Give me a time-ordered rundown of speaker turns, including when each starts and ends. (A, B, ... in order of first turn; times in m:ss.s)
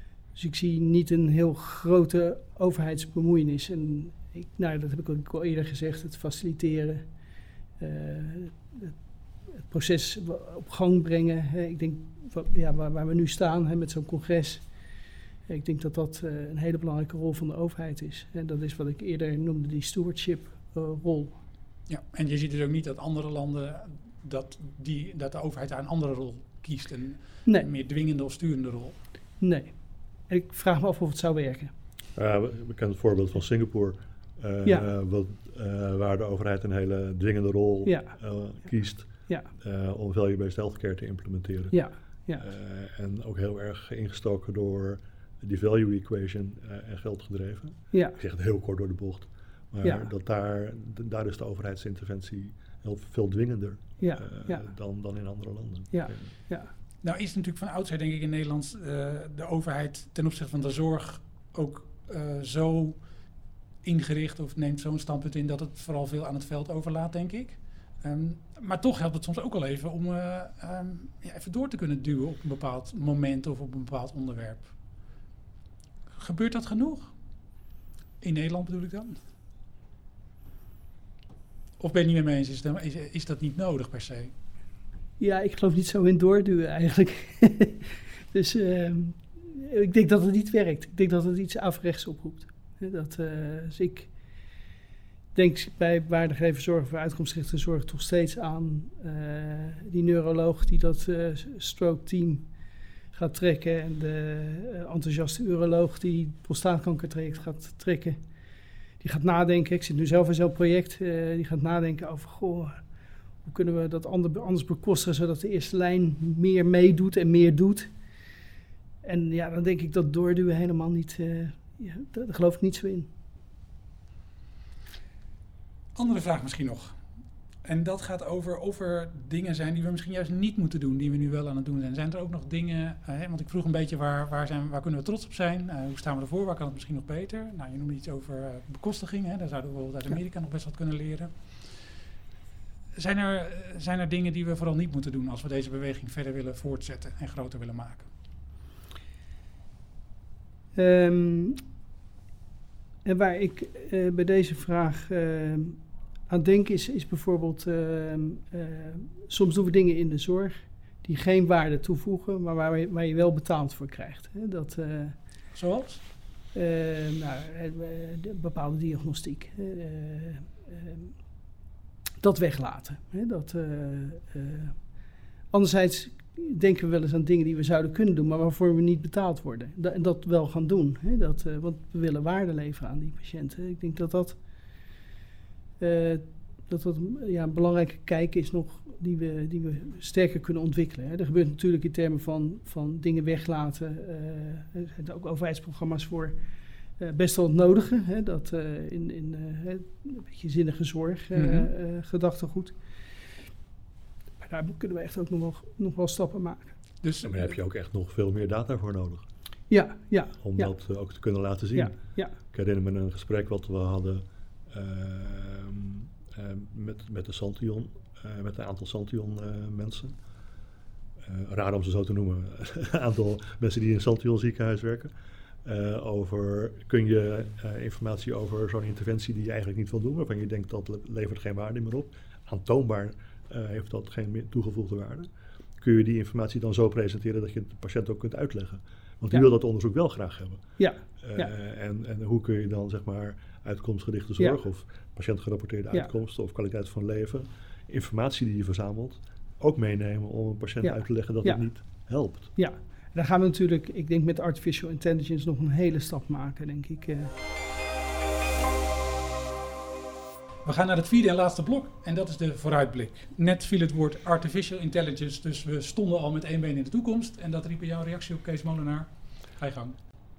0:00.4-0:07.0 A
0:07.8-0:09.0 A
0:09.6-0:14.6 A
0:15.5-0:21.4 A
0:21.9-0:29.0 B
0:29.4-0:29.7 A
0:30.3-0:31.7 A
0:32.2-0:41.8 C
0:37.9-0:38.2 A
0:41.7-0:42.4 A
0:42.4-0:56.3 C
0:47.9-0:48.2 A
0:49.8-0:50.1 A
0:54.0-0:54.7 A
0:55.9-0:56.7 A
0:57.0-1:03.0 B
1:03.8-1:14.7 B
1:16.2-1:17.1 B
1:18.2-1:19.2 B
1:21.8-1:24.3 B
1:25.2-1:34.1 A
1:35.4-1:42.5 A
1:43.1-1:48.2 A
1:49.0-1:52.8 A
1:53.4-1:57.9 A
1:59.0-2:03.1 A
2:06.0-2:07.0 B
2:07.6-2:21.8 B
2:23.0-2:28.1 B
2:30.8-2:31.6 A
2:33.0-2:45.2 A
2:45.5-2:46.0 B
2:46.5-2:51.1 A
2:52.2-2:54.8 A
2:55.5-3:04.4 A
3:05.8-3:16.4 A
3:17.0-3:22.8 A
3:21.4-3:21.7 B
3:24.4-3:26.8 A
3:27.0-3:27.5 B
3:27.2-3:29.2 C
3:29.7-3:30.7 A
3:30.4-3:32.0 C
3:31.8-3:32.3 A
3:32.5-3:40.2 C
3:41.2-3:45.1 C
3:45.6-3:55.3 C
3:55.8-4:00.6 C
4:00.8-4:01.5 A
4:01.2-4:12.5 C
4:10.8-4:11.6 A
4:12.6-4:17.3 A
4:20.6-4:30.0 B